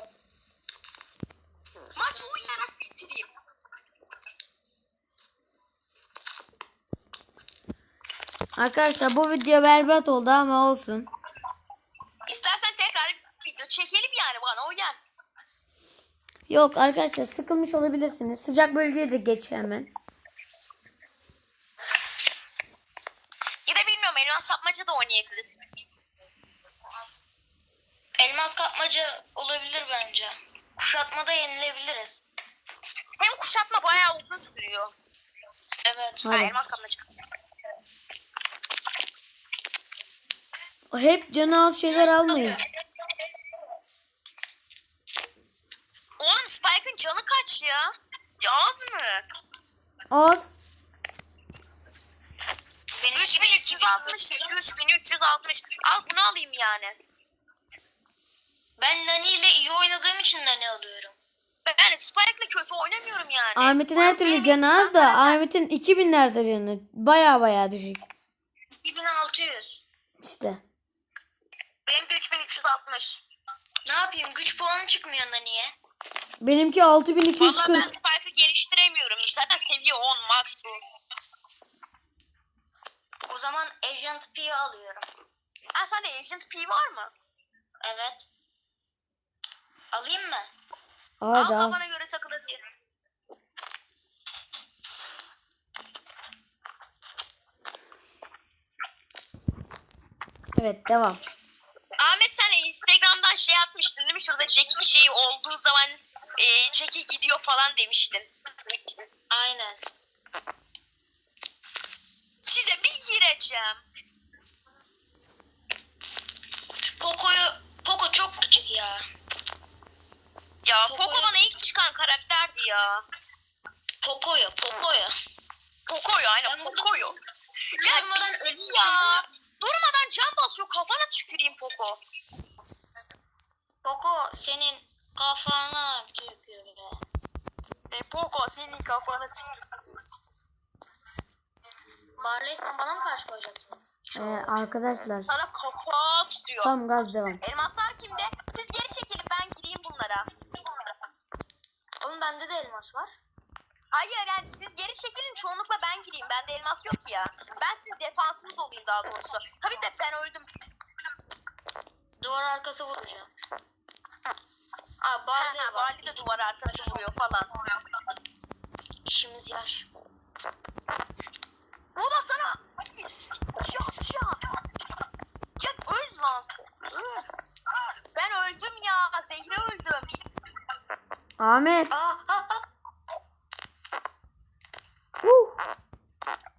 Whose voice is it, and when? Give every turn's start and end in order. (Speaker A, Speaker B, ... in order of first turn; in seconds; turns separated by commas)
Speaker A: 1.9-3.3, Speaker B: 8.6-11.1, Speaker A: 12.3-15.0, Speaker B: 16.5-19.9, Speaker A: 23.6-25.6, Speaker C: 28.2-32.2, Speaker A: 33.2-34.9, Speaker C: 35.8-36.3, Speaker B: 36.2-36.5, Speaker A: 36.3-37.0, Speaker B: 40.9-42.6, Speaker C: 41.9-42.5, Speaker A: 46.2-49.2, Speaker B: 50.1-50.5, Speaker C: 53.0-54.6, Speaker A: 53.1-57.0, Speaker C: 58.8-61.1, Speaker A: 61.6-65.4, Speaker B: 63.5-68.0, Speaker C: 68.8-69.8, Speaker B: 70.2-70.6, Speaker C: 71.9-73.2, Speaker C: 73.8-75.7, Speaker B: 76.4-77.9, Speaker A: 77.4-80.8, Speaker C: 83.3-85.1, Speaker A: 85.7-87.1, Speaker C: 87.8-88.3, Speaker C: 89.9-90.5, Speaker B: 91.2-91.8, Speaker A: 91.3-92.6, Speaker B: 100.5-101.2, Speaker A: 102.0-108.3, Speaker C: 109.3-109.8, Speaker A: 112.4-113.8, Speaker C: 117.0-119.1, Speaker A: 120.6-123.0, Speaker C: 120.9-121.3, Speaker C: 124.0-125.1, Speaker A: 125.9-127.1, Speaker C: 126.4-127.2, Speaker C: 127.8-129.2, Speaker A: 127.8-132.0, Speaker C: 133.8-137.0, Speaker A: 137.9-139.4, Speaker C: 142.2-144.8, Speaker B: 144.1-145.3, Speaker A: 145.3-146.7, Speaker B: 146.6-147.4, Speaker A: 147.4-150.3, Speaker C: 152.0-153.1, Speaker A: 153.9-160.5, Speaker C: 162.2-163.3, Speaker C: 165.0-167.0, Speaker A: 165.3-167.5, Speaker C: 169.1-169.9, Speaker A: 171.9-174.4, Speaker A: 175.6-177.2, Speaker A: 178.1-180.1, Speaker B: 181.4-181.9, Speaker C: 181.9-182.6, Speaker B: 185.2-185.6